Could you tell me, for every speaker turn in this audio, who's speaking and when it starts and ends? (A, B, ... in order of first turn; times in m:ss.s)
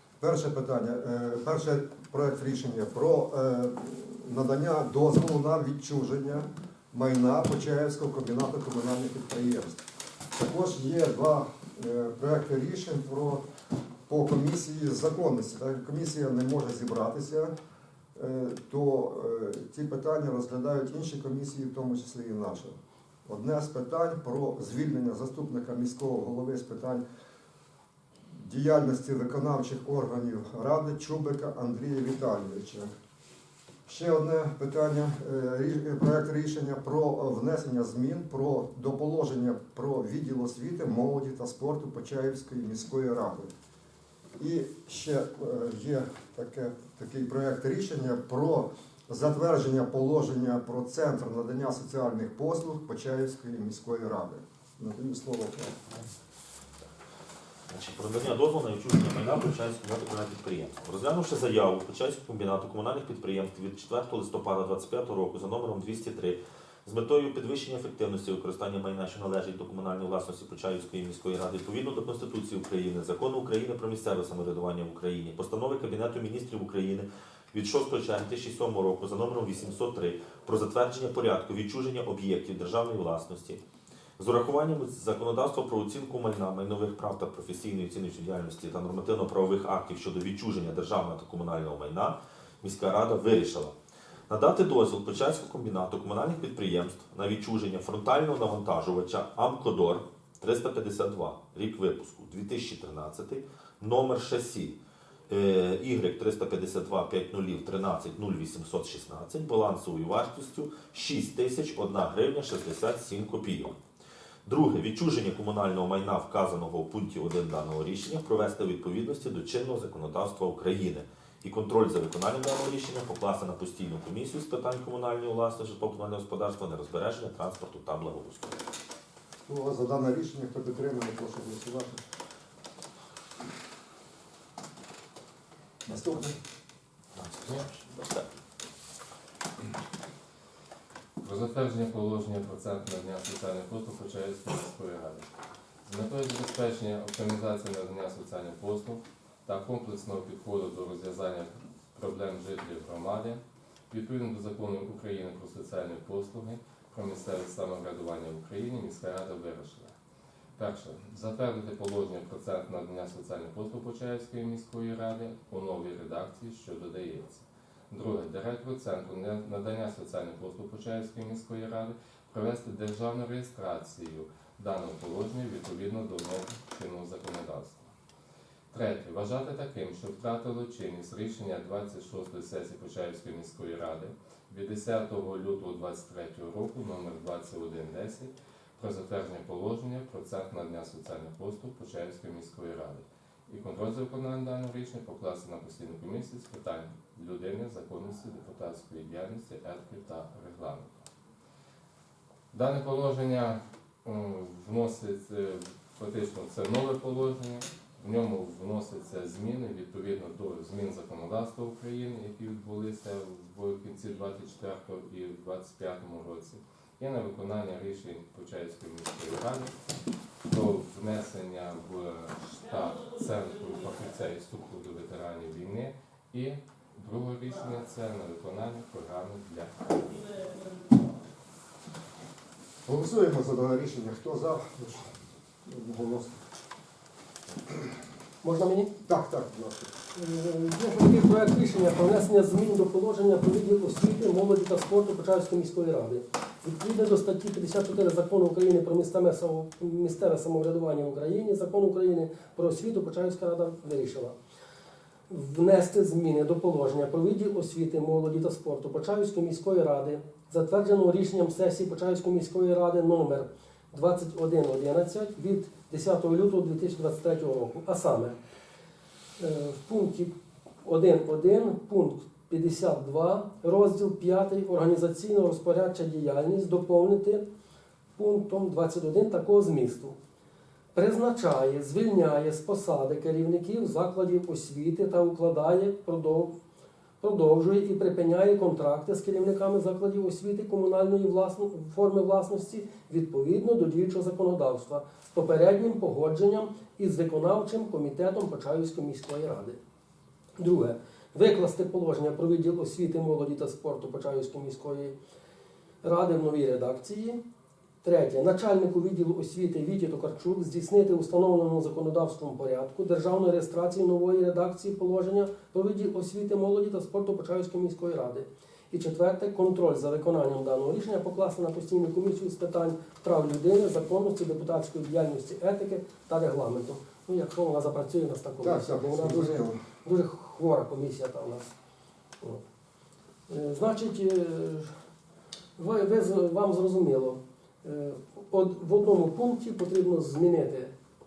0:00.2-0:09.8 A
0:10.4-0:13.4 A
0:14.1-0:17.5 A
0:18.1-0:22.7 A
0:23.2-0:27.0 A
0:28.4-0:32.9 A
0:33.8-0:43.5 A
0:44.4-0:55.9 A
0:57.7-1:23.6 B
1:24.2-1:33.7 B
1:34.3-1:44.8 B
1:45.3-1:53.8 B
1:54.4-2:08.6 B
2:09.5-2:12.1 A
2:15.9-2:16.3 B
2:15.9-2:16.2 A
2:17.2-2:18.3 B
2:21.2-2:25.2 C
2:25.8-2:39.9 C
2:40.6-2:57.9 C
2:58.7-3:21.0 C
3:22.5-3:39.7 C
3:40.5-3:50.0 C
3:52.8-3:55.1 A
3:55.6-3:56.4 A
3:58.4-3:58.9 D
3:59.0-3:59.9 A
4:00.1-4:14.3 D
4:15.3-4:28.4 D
4:29.4-4:30.3 D
4:30.8-4:37.4 D
4:38.2-4:40.2 D
4:40.9-4:46.5 D
4:47.2-4:59.8 D
5:00.6-5:05.1 D
5:06.0-5:07.4 D
5:08.0-5:31.7 D
5:28.6-5:29.8 A
5:33.5-5:34.9 D
5:35.8-5:40.9 D